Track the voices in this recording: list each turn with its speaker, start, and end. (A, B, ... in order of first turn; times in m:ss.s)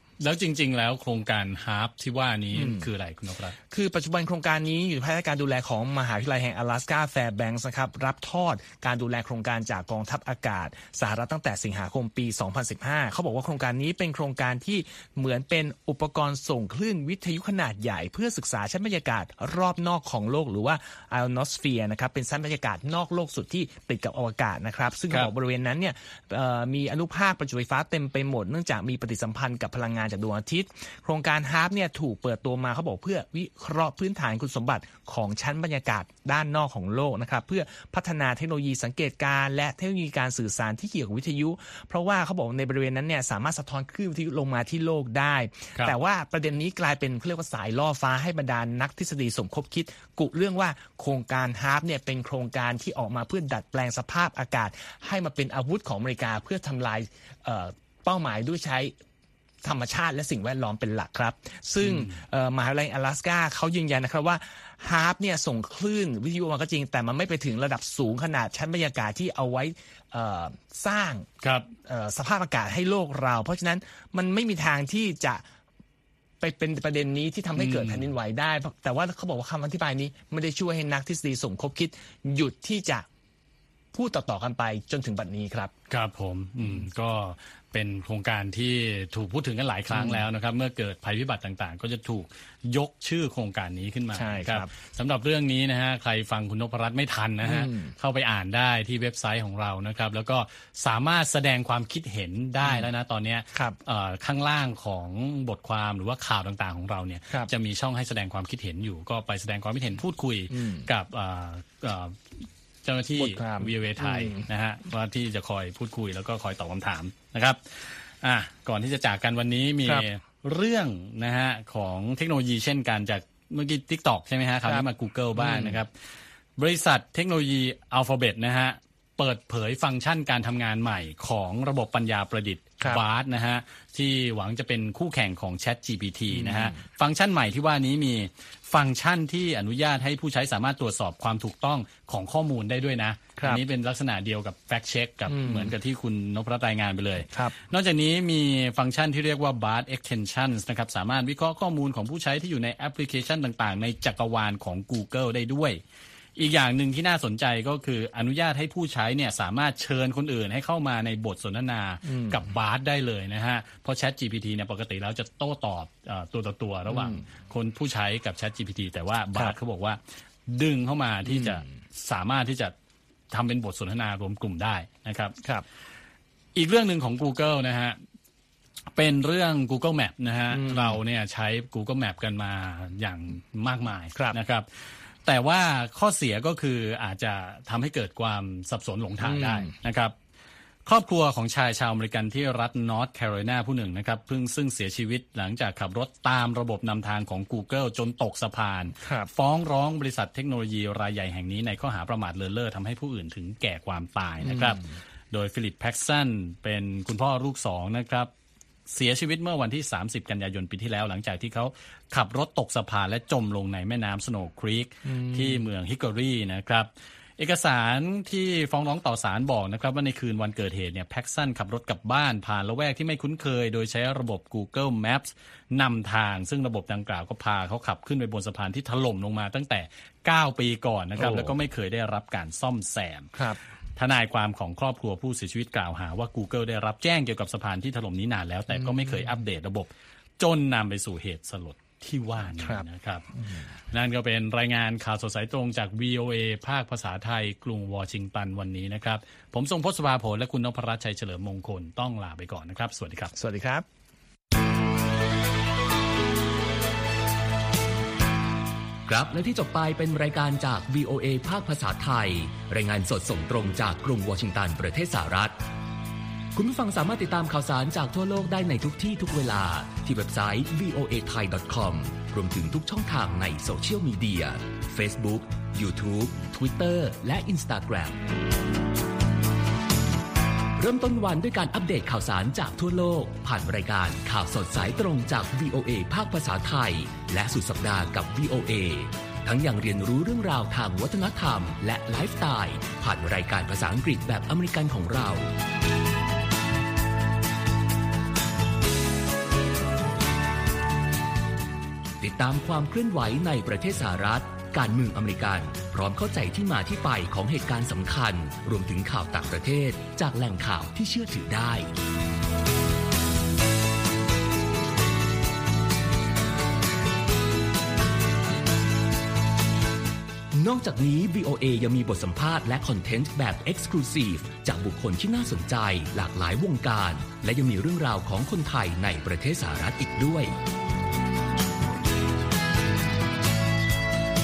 0:00.2-0:03.6 A
0:02.5-0:02.9 B
0:03.7-0:58.9 B
0:59.6-1:11.3 B
1:01.8-1:02.2 A
1:11.4-1:11.7 A
1:11.8-1:15.4 B
1:16.4-1:23.1 B
1:17.6-1:18.1 A
1:23.9-1:25.7 B
1:25.9-2:05.9 A
1:29.9-1:30.2 B
1:34.1-1:34.7 B
1:37.4-1:37.9 B
1:42.6-1:42.9 B
1:50.5-1:50.9 B
1:53.2-1:54.4 B
2:05.4-2:05.8 B
2:06.6-2:35.8 A
2:16.3-2:16.8 B
2:25.3-2:25.7 B
2:36.4-2:52.7 A
2:42.0-2:42.5 B
2:46.9-2:47.2 B
2:51.2-2:51.6 B
2:53.3-2:55.4 A
2:56.6-2:58.0 A
2:58.9-3:10.1 A
3:00.5-3:01.0 B
3:09.2-3:09.7 B
3:10.8-3:28.3 A
3:19.0-3:19.3 B
3:24.4-3:24.8 B
3:28.9-3:53.4 A
3:35.1-3:35.6 B
3:51.2-3:51.6 B
3:53.3-3:53.6 B
3:54.0-4:03.3 A
3:58.7-3:59.4 B
4:02.6-4:02.8 B
4:03.9-4:13.3 A
4:13.3-4:13.8 B
4:19.0-4:25.6 C
4:26.5-4:38.2 C
4:40.8-4:55.5 C
5:02.2-5:11.9 C
5:20.5-5:30.5 C